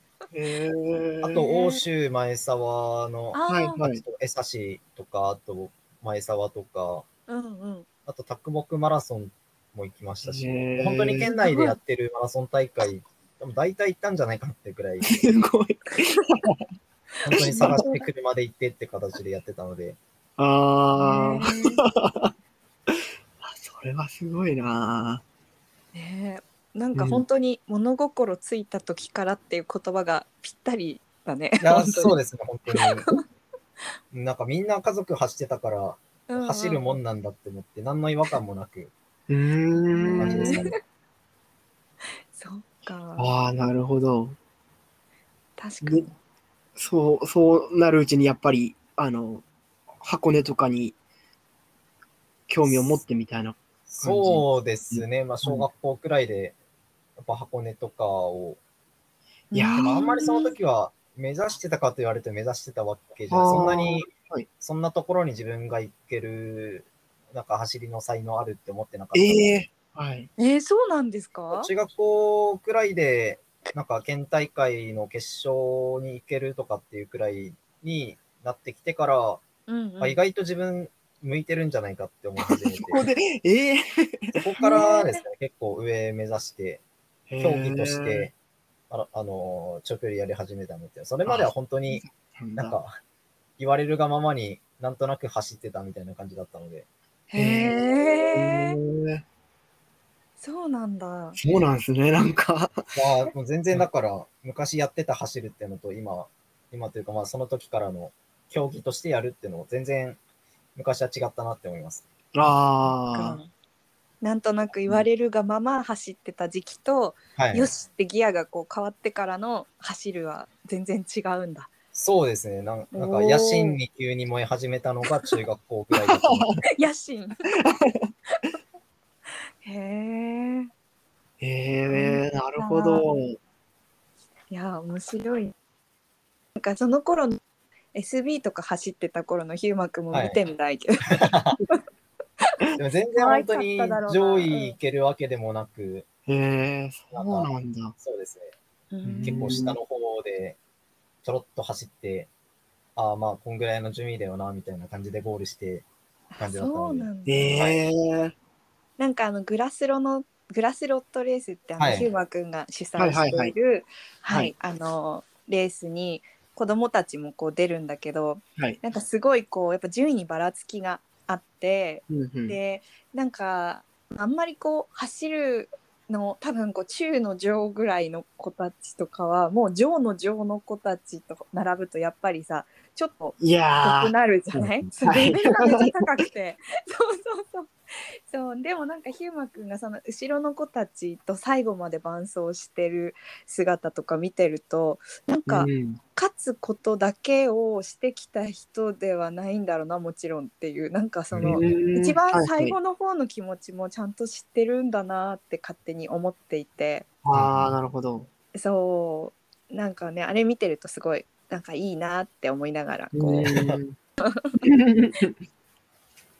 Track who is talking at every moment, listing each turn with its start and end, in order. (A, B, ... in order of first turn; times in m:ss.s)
0:00.3-0:01.4 A
0:01.2-0:07.1 B
0:01.4-0:01.8 C
0:03.3-0:03.8 C
0:03.5-0:04.0 A
0:07.3-0:07.9 C
0:08.1-0:15.2 B
0:10.2-0:11.3 A
0:11.2-0:11.8 C
0:15.1-0:16.6 A
0:17.2-0:20.0 B
0:17.3-0:17.8 A
0:17.4-0:18.1 C
0:20.4-0:22.3 A
0:21.0-0:21.8 C
0:22.9-0:25.2 A
0:25.9-0:32.2 C
0:27.0-0:27.2 A
0:31.6-0:33.1 B
0:32.7-0:33.2 C
0:34.1-0:38.9 B
0:36.3-0:37.0 C
0:39.3-0:40.6 A
0:39.9-0:40.7 C
0:40.2-0:40.8 B
0:42.3-0:43.3 C
0:43.2-0:44.4 A
0:45.6-0:46.1 C
0:45.8-0:46.1 A
0:46.8-0:49.4 A
0:50.0-0:51.0 A
0:52.5-0:55.7 A
0:52.7-0:53.0 B
0:53.9-0:56.6 B
0:57.2-0:58.6 B
0:59.5-1:00.6 C
0:59.5-1:00.1 A
0:59.8-1:09.4 B
1:03.3-1:04.5 A
1:09.1-1:10.3 A
1:10.4-1:11.7 C
1:11.5-1:19.4 B
1:19.7-1:20.2 C
1:20.0-1:23.1 B
1:22.4-1:24.8 A
1:24.3-1:26.8 B
1:24.6-1:25.2 C
1:27.3-1:28.3 A
1:27.4-1:28.3 B
1:28.9-1:32.0 B
1:31.3-1:32.8 A
1:32.6-1:33.0 B
1:33.6-1:36.9 B
1:37.3-1:38.8 C
1:37.4-1:39.2 A
1:40.4-1:41.4 C
1:41.4-1:42.9 A
1:42.9-1:50.2 B
1:50.8-1:52.0 B
1:52.4-1:53.4 A
1:53.1-1:53.5 C
1:54.2-2:01.7 C
1:57.4-1:57.7 B
2:01.9-2:06.5 B
2:02.9-2:03.8 C
2:05.9-2:06.6 A
2:06.7-2:07.3 C
2:07.6-2:08.1 A
2:09.6-2:10.7 C
2:11.4-2:13.4 A
2:11.9-2:13.1 C
2:14.5-2:15.5 C
2:16.6-2:17.4 C
2:17.9-2:21.8 C
2:20.1-2:20.4 B
2:21.1-2:21.6 B
2:22.8-2:26.0 B
2:23.2-2:24.8 C
2:26.3-2:28.0 A
2:27.1-2:28.5 B
2:28.9-2:29.7 C
2:29.0-2:29.8 A
2:29.2-2:30.6 B
2:31.2-2:32.3 B
2:33.0-2:35.9 B
2:36.3-2:37.6 C
2:36.4-2:37.8 B
2:37.3-2:38.3 A
2:39.0-3:07.7 C
2:41.8-2:42.1 B
2:43.0-2:43.5 A
2:52.1-2:52.6 A
3:03.4-3:06.1 A
3:08.3-3:27.1 C
3:15.5-3:16.0 A
3:21.3-3:21.6 B
3:21.4-3:22.8 A
3:27.2-3:28.3 A
3:27.3-3:27.7 B
3:28.6-3:33.6 C
3:33.1-3:34.0 A
3:34.2-3:34.6 C
3:34.6-3:35.4 A